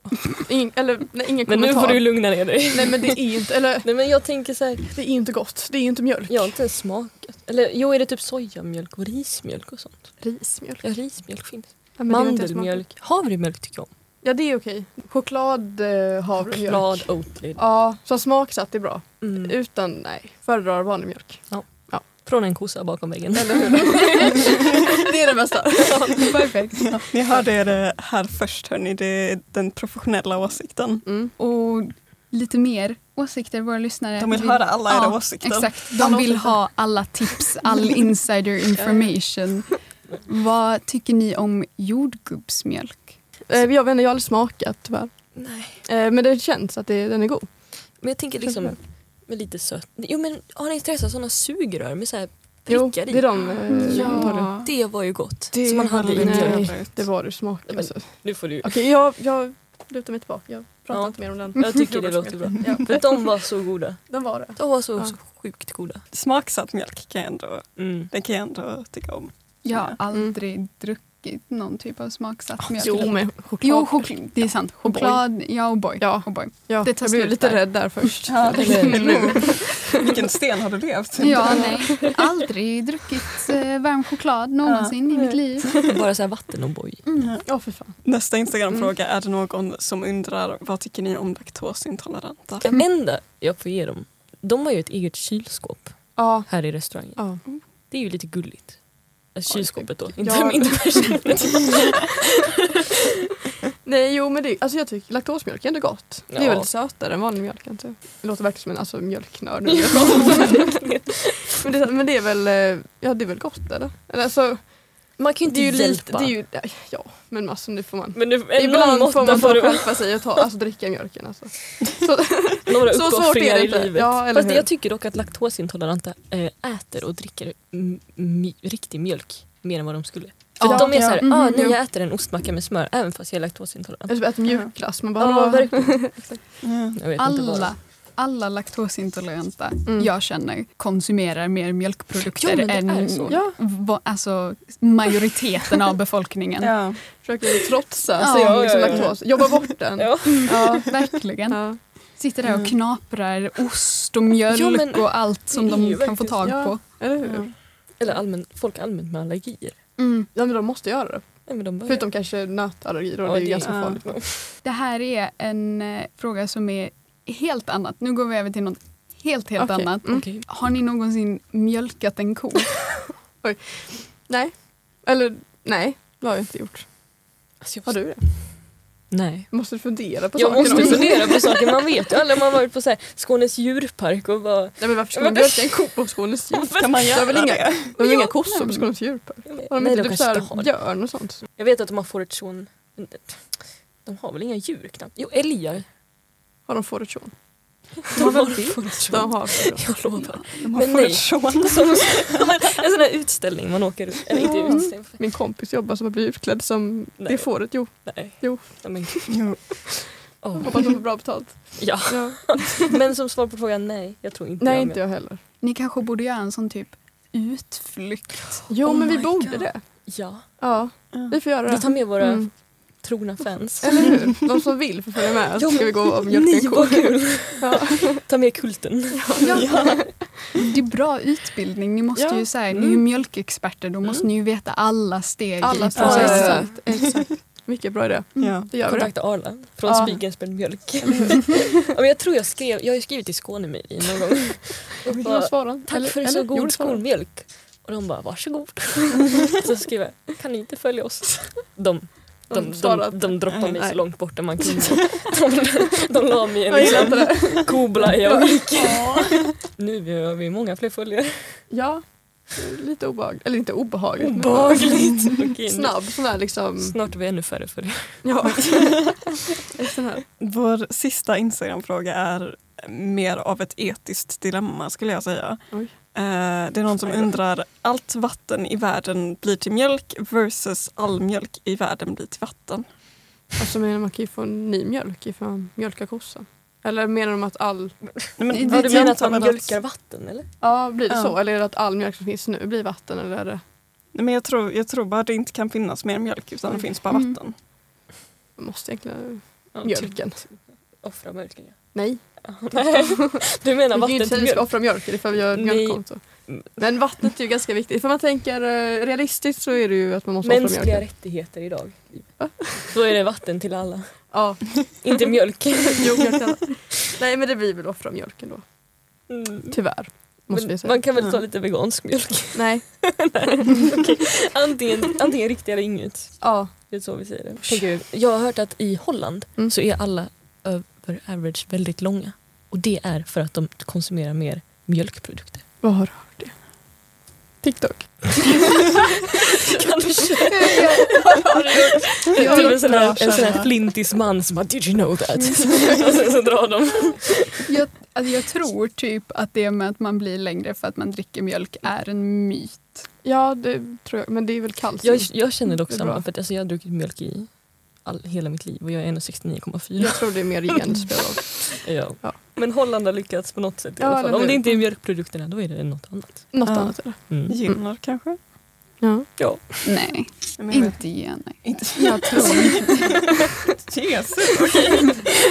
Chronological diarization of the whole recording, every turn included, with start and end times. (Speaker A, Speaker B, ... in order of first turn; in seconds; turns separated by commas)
Speaker A: 0.2-4.3, Speaker B: 1.4-3.2, Speaker B: 3.8-4.9, Speaker A: 4.9-6.5, Speaker B: 6.3-10.2, Speaker A: 10.2-10.9, Speaker B: 10.8-13.9, Speaker A: 12.0-12.8, Speaker A: 14.2-22.1, Speaker B: 16.5-17.6, Speaker B: 19.2-19.6, Speaker B: 21.5-24.6, Speaker A: 23.3-26.4, Speaker B: 25.8-26.5, Speaker C: 26.2-27.0, Speaker D: 26.9-31.1, Speaker A: 31.1-31.3, Speaker C: 31.4-43.1, Speaker D: 34.2-35.8, Speaker A: 36.0-36.6, Speaker A: 43.5-48.8, Speaker B: 45.3-45.8, Speaker B: 47.8-56.9, Speaker A: 52.7-54.5, Speaker C: 53.7-54.3, Speaker D: 54.0-57.1, Speaker A: 56.2-63.5, Speaker B: 57.6-58.8, Speaker B: 60.9-66.0, Speaker A: 64.1-65.1, Speaker D: 66.1-70.0, Speaker B: 67.8-68.1, Speaker C: 69.6-78.2, Speaker A: 72.7-79.9, Speaker D: 78.3-81.8, Speaker B: 78.5-79.5, Speaker C: 81.2-85.8, Speaker D: 84.6-85.0, Speaker B: 85.1-87.0, Speaker C: 87.0-87.3, Speaker A: 87.4-88.0, Speaker D: 88.0-92.7, Speaker B: 92.6-102.2, Speaker A: 96.2-97.4, Speaker A: 99.5-101.4, Speaker A: 103.8-110.7, Speaker B: 106.3-106.7, Speaker B: 109.7-111.6, Speaker A: 111.6-124.7, Speaker B: 115.2-116.3, Speaker B: 118.1-120.4, Speaker B: 122.7-134.3, Speaker C: 130.6-131.7, Speaker A: 130.6-131.8, Speaker D: 130.9-131.2, Speaker A: 134.1-136.4, Speaker B: 135.1-136.3, Speaker D: 136.6-137.0, Speaker B: 136.9-137.7, Speaker C: 137.2-146.8, Speaker B: 142.2-143.4, Speaker A: 143.3-143.6, Speaker D: 146.6-147.0, Speaker A: 147.2-150.9, Speaker C: 148.2-148.9, Speaker B: 148.2-149.4, Speaker D: 148.8-149.2, Speaker B: 150.0-150.8, Speaker C: 150.2-156.8, Speaker A: 151.5-151.8, Speaker D: 152.4-152.7, Speaker B: 154.5-156.6, Speaker A: 156.4-157.5, Speaker D: 157.2-157.5, Speaker B: 157.9-159.8, Speaker C: 160.0-160.3, Speaker A: 160.3-164.1, Speaker B: 161.4-162.2, Speaker B: 163.2-164.5, Speaker D: 163.6-164.0, Speaker C: 164.6-173.0, Speaker A: 169.6-170.4, Speaker B: 170.1-170.4, Speaker A: 173.4-177.2, Speaker B: 177.6-178.1, Speaker A: 177.8-178.3, Speaker B: 179.1-187.6, Speaker A: 179.5-181.5, Speaker A: 184.8-191.4, Speaker D: 186.8-188.0, Speaker C: 188.0-188.9, Speaker B: 189.5-195.8, Speaker A: 196.7-200.1, Speaker B: 198.1-205.2, Speaker C: 200.2-200.5, Speaker D: 200.6-202.2, Speaker A: 204.5-209.4, Speaker B: 207.2-209.7, Speaker D: 209.3-209.8, Speaker B: 210.4-211.0, Speaker A: 210.6-213.0, Speaker B: 211.8-215.0, Speaker A: 214.6-215.4, Speaker C: 215.6-219.5, Speaker A: 218.7-222.5, Speaker B: 218.9-224.2, Speaker D: 221.1-221.4, Speaker A: 223.8-228.2, Speaker B: 225.6-229.9, Speaker A: 229.2-230.1, Speaker C: 229.4-236.8, Speaker D: 229.5-230.1, Speaker A: 232.2-232.5, Speaker B: 232.7-233.0, Speaker A: 235.6-241.8, Speaker B: 235.9-236.7, Speaker D: 235.9-236.8, Speaker D: 238.4-238.7, Speaker B: 238.8-261.7, Speaker A: 245.1-247.0, Speaker A: 252.5-255.2, Speaker A: 256.7-259.1, Speaker C: 258.9-259.2, Speaker A: 261.7-266.9, Speaker B: 264.2-268.2, Speaker A: 268.2-269.1, Speaker D: 268.6-269.3, Speaker A: 269.7-270.2, Speaker D: 270.4-283.0, Speaker A: 283.6-288.2, Speaker D: 288.4-289.8, Speaker C: 288.5-289.1, Speaker B: 288.5-290.5, Speaker A: 290.6-293.6, Speaker D: 291.1-291.4, Speaker D: 294.1-297.5, Speaker C: 297.1-297.4, Speaker A: 298.6-300.4, Speaker B: 299.7-306.8, Speaker A: 301.9-303.2, Speaker A: 303.8-311.2, Speaker B: 310.4-316.4, Speaker A: 312.4-312.9, Speaker A: 314.3-315.3, Speaker A: 315.9-318.6, Speaker B: 319.3-335.6, Speaker A: 319.7-321.0, Speaker D: 321.2-321.4, Speaker A: 322.5-323.6, Speaker A: 326.4-326.9, Speaker A: 327.6-327.9, Speaker A: 335.8-336.6, Speaker A: 337.6-338.6, Speaker B: 339.3-347.6, Speaker C: 340.5-342.8, Speaker A: 342.3-342.7, Speaker D: 342.3-343.7, Speaker C: 347.6-353.0, Speaker A: 353.2-356.2, Speaker B: 355.0-360.9, Speaker A: 360.0-362.5, Speaker B: 361.6-366.7, Speaker A: 364.0-364.9, Speaker A: 366.5-367.8, Speaker D: 366.6-368.4, Speaker B: 367.3-367.6, Speaker A: 369.0-369.9, Speaker C: 369.8-373.1, Speaker D: 370.6-373.1, Speaker A: 372.0-372.9, Speaker D: 373.8-375.2